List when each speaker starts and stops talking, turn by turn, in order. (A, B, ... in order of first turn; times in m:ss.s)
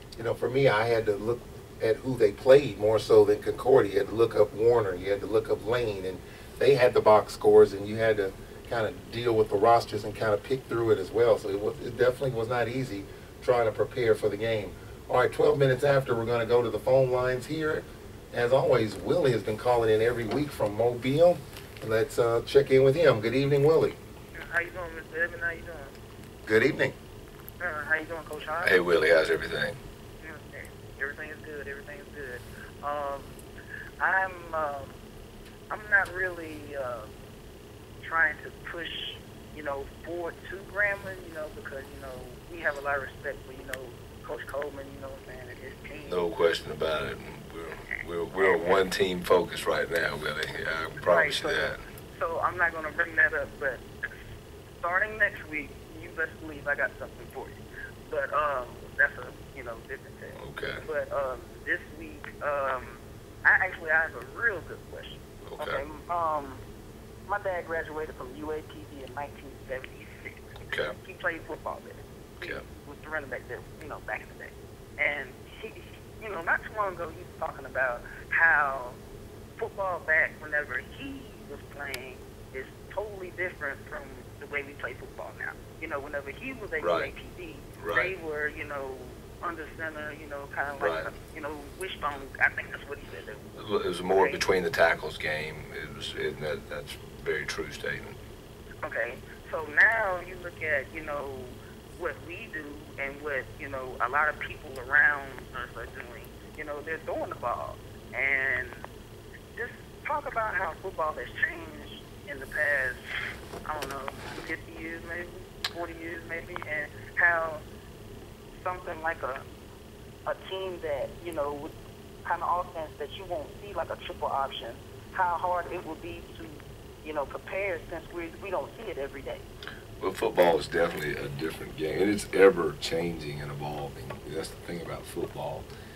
0:00.2-0:24.0 A
0:24.4-0:25.9 B
0:26.5-0:27.0 A
0:27.6-0:28.8 B
0:28.6-0:29.8 C
0:30.2-0:33.4 B
0:34.0-0:35.0 B
0:35.7-0:37.1 B
0:38.0-0:46.3 B
0:46.0-0:51.8 C
0:48.4-0:48.6 B
0:51.0-0:53.8 B
0:54.8-1:06.6 B
1:00.3-1:00.8 C
1:05.4-1:05.8 C
1:07.3-1:10.5 B
1:10.6-1:11.0 C
1:11.0-1:19.0 B
1:19.6-1:33.5 B
1:26.8-1:27.1 C
1:27.8-1:28.1 C
1:30.8-1:31.1 C
1:33.5-1:38.2 C
1:34.1-1:34.4 B
1:38.8-1:48.9 B
1:49.6-1:53.0 B
1:53.6-1:57.6 B
1:58.6-1:59.4 B
2:00.2-2:01.7 B
2:02.2-2:09.4 B
2:10.0-2:15.6 C